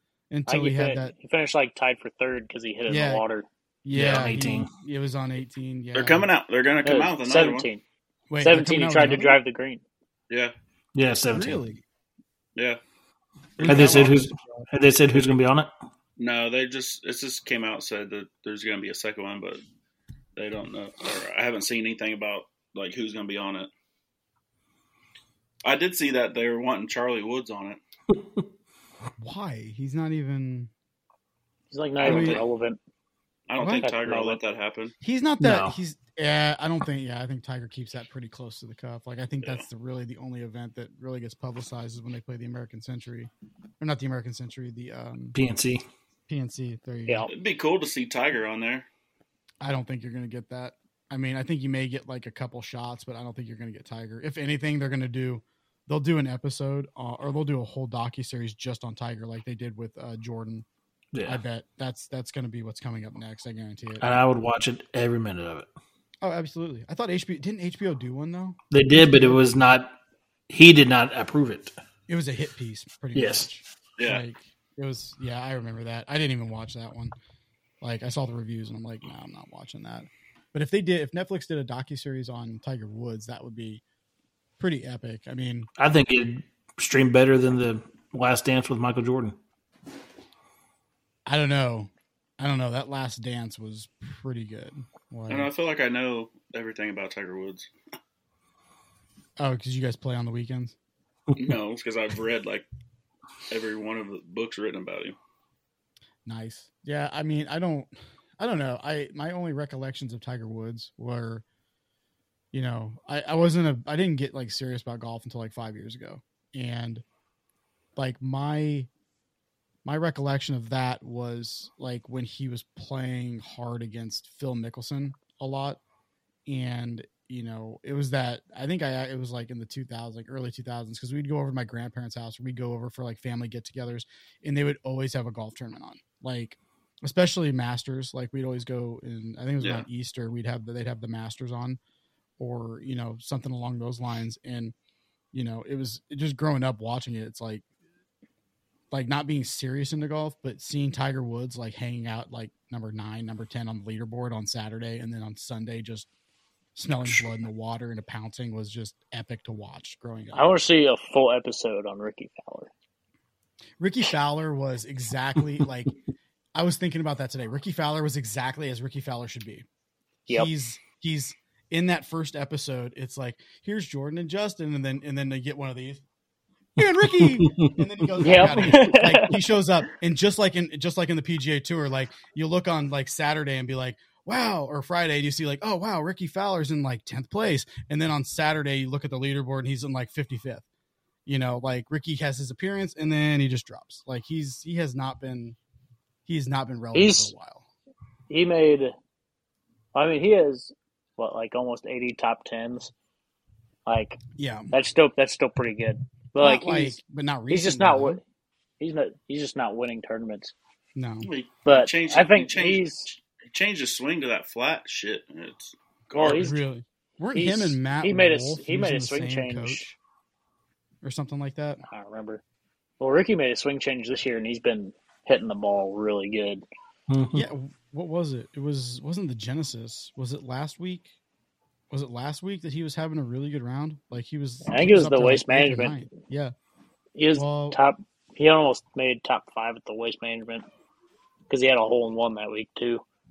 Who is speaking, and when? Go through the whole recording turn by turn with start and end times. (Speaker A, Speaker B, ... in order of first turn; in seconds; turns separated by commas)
Speaker A: 0.3-1.1, Speaker B: 0.5-3.5, Speaker A: 2.9-3.2, Speaker A: 3.8-6.2, Speaker C: 3.9-4.7, Speaker D: 5.9-7.7, Speaker B: 6.8-7.8, Speaker A: 8.3-9.4, Speaker B: 8.4-9.8, Speaker C: 10.9-11.6, Speaker A: 11.3-11.8, Speaker D: 13.6-14.2, Speaker A: 13.6-14.7, Speaker C: 13.7-15.7, Speaker D: 16.2-19.6, Speaker D: 20.4-23.7, Speaker D: 25.6-27.8, Speaker C: 28.1-28.4, Speaker A: 29.2-30.7, Speaker B: 31.7-32.8, Speaker D: 32.0-32.4, Speaker A: 32.0-32.4, Speaker D: 33.5-34.9, Speaker A: 33.6-33.9, Speaker B: 33.8-34.4, Speaker A: 35.0-45.4, Speaker C: 35.4-35.8, Speaker C: 45.3-45.8, Speaker A: 46.3-47.3, Speaker D: 47.3-48.9, Speaker A: 49.6-60.6, Speaker C: 61.1-61.4, Speaker A: 61.2-64.2, Speaker C: 64.0-65.7, Speaker A: 66.2-69.5, Speaker C: 68.7-70.0, Speaker C: 70.5-71.7, Speaker A: 72.1-77.1, Speaker C: 73.1-73.5, Speaker D: 74.0-74.2, Speaker A: 77.8-83.8, Speaker A: 84.6-85.7, Speaker C: 85.8-89.4, Speaker A: 91.2-95.5, Speaker D: 95.3-97.7, Speaker A: 99.4-100.7, Speaker D: 101.4-102.7, Speaker D: 103.5-105.2, Speaker A: 106.2-111.4, Speaker A: 112.5-117.0, Speaker A: 118.0-118.9, Speaker A: 119.8-125.8, Speaker A: 126.5-141.8, Speaker D: 139.6-139.8, Speaker A: 142.4-144.7, Speaker A: 145.3-147.6, Speaker A: 148.9-156.1, Speaker A: 156.7-160.4, Speaker B: 160.3-162.7, Speaker A: 163.8-165.9, Speaker A: 166.5-169.6, Speaker A: 170.3-176.0, Speaker A: 176.8-190.6, Speaker C: 176.8-177.7, Speaker B: 178.2-179.5, Speaker A: 191.2-195.6, Speaker A: 196.2-197.7, Speaker B: 196.9-197.3, Speaker B: 198.3-198.9, Speaker B: 199.9-202.9, Speaker B: 203.8-204.2, Speaker A: 204.4-204.7, Speaker B: 204.7-207.0, Speaker A: 206.4-208.2, Speaker B: 207.5-208.2, Speaker B: 208.8-210.5, Speaker A: 210.9-211.3, Speaker D: 211.2-216.5, Speaker B: 211.7-213.1, Speaker B: 216.1-216.6, Speaker A: 216.2-219.9, Speaker B: 217.3-219.9, Speaker A: 221.0-221.8, Speaker B: 221.9-222.4, Speaker B: 223.0-226.6, Speaker C: 227.1-227.5, Speaker A: 227.3-231.1, Speaker A: 231.9-236.5, Speaker B: 234.7-236.0, Speaker B: 237.2-240.7, Speaker A: 237.3-237.8, Speaker B: 241.5-243.0